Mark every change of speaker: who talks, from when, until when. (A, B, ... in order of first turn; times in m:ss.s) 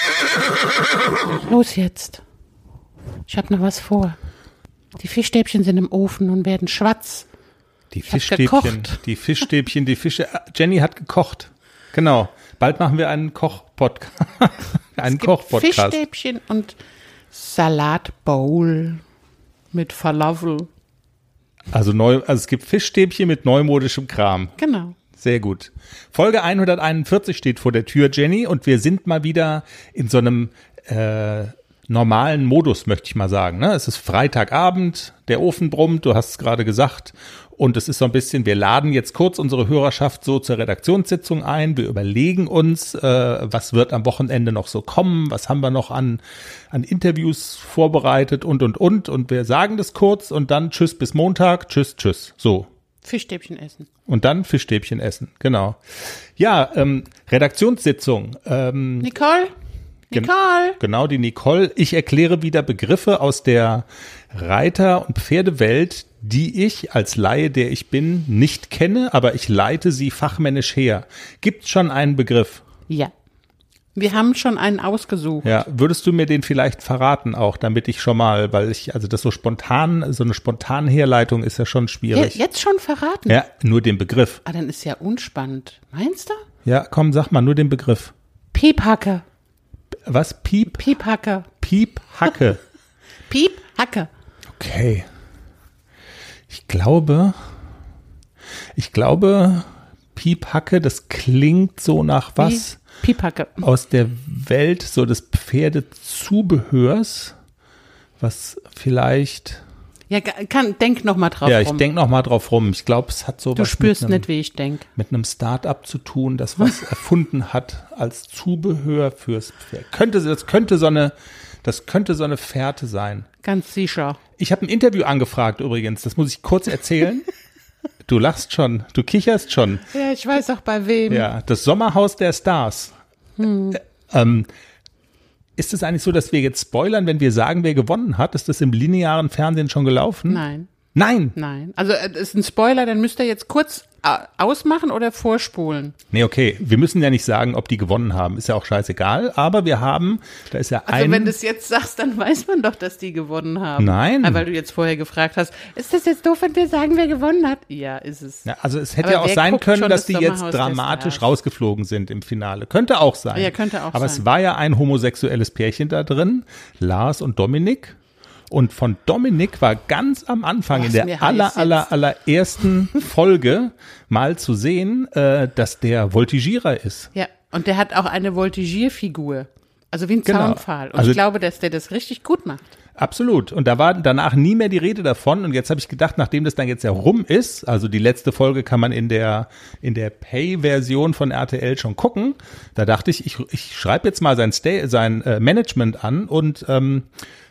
0:01.3-0:02.2 A
0:03.3-0:04.2 A
0:05.0-0:07.3 A
0:07.9-0:16.0 B
0:08.1-0:09.0 A
0:15.0-0:16.8 A
0:17.3-0:19.0 A
0:19.7-0:20.7 A
0:21.7-0:24.6 B
0:24.6-0:25.0 A
0:25.1-0:52.7 B
0:53.0-0:53.9 A
0:54.1-0:55.8 B
0:56.4-0:59.1 B
0:59.0-0:59.5 A
1:00.1-1:00.8 A
1:00.1-1:12.6 B
1:14.0-1:15.5 A
1:15.4-1:22.4 B
1:22.1-1:23.4 A
1:23.3-1:24.4 B
1:24.4-1:26.4 A
1:26.6-1:28.1 B
1:28.5-1:29.2 A
1:30.1-1:30.9 B
1:30.7-1:31.5 A
1:31.6-1:32.6 B
1:33.3-1:34.1 A
1:34.6-1:35.0 B
1:36.5-1:37.3 B
1:38.8-1:42.8 B
1:42.4-1:43.7 A
1:43.6-1:47.4 B
1:48.2-1:49.6 B
1:50.1-1:51.8 A
1:51.4-1:54.3 B
1:53.6-1:54.9 A
1:55.0-2:01.1 B
2:01.6-2:03.3 B
2:03.4-2:04.2 A
2:04.4-2:07.3 B
2:08.1-2:09.9 B
2:09.9-2:11.3 A
2:11.1-2:12.9 B
2:13.4-2:13.8 A
2:13.7-2:14.5 B
2:15.6-2:21.4 B
2:20.3-2:20.7 A
2:21.4-2:26.0 A
2:26.1-2:31.4 B
2:30.9-2:38.5 A
2:33.8-2:34.4 B
2:38.4-2:48.0 B
2:39.0-2:41.3 A
2:43.3-2:44.3 A
2:48.5-2:57.1 B
2:50.7-2:51.9 A
2:57.1-3:02.7 A
3:00.3-3:01.2 B
3:03.0-3:17.1 B